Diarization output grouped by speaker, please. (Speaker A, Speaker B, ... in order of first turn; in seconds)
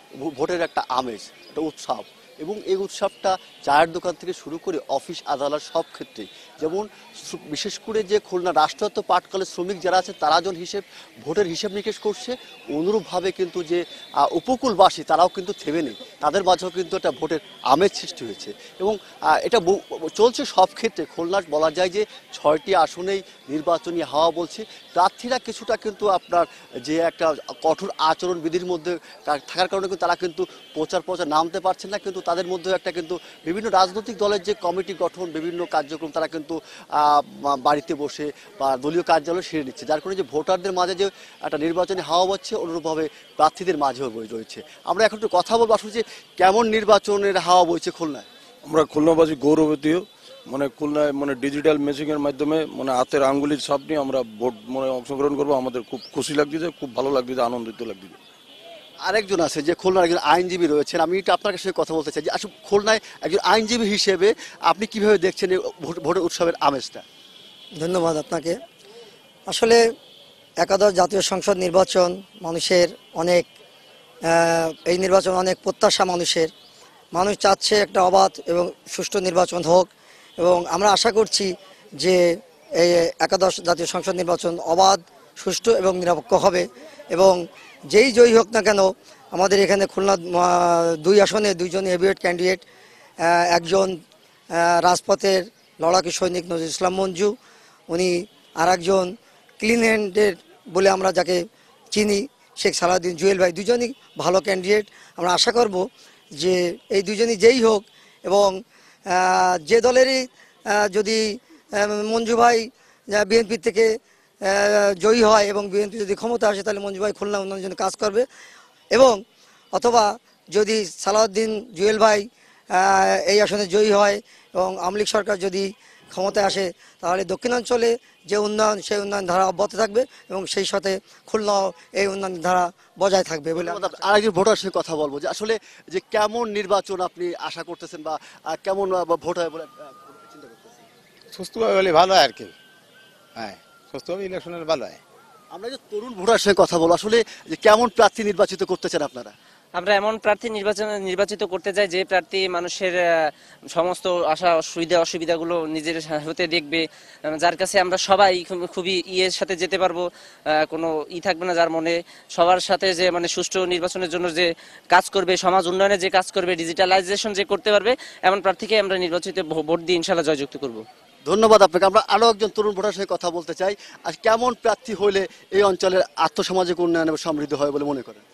Speaker A: 0.2-48.3, 59.0-67.0, 133.6-140.8, 145.5-149.3, 171.2-178.2
Speaker B: 48.6-58.2
Speaker C: 67.8-68.6, 69.5-69.8, 70.6-73.5, 74.3-76.5, 77.1-79.9, 80.4-82.2, 82.8-87.4, 87.9-92.6, 93.2-94.0, 94.6-97.3, 97.9-99.1, 99.6-105.8, 106.4-108.6, 109.1-110.2, 110.8-113.9, 114.5-118.3, 118.9-119.2, 119.7-134.0
Speaker D: 141.3-142.5, 143.4-145.0
Speaker E: 149.8-153.0, 153.7-160.1, 160.6-170.8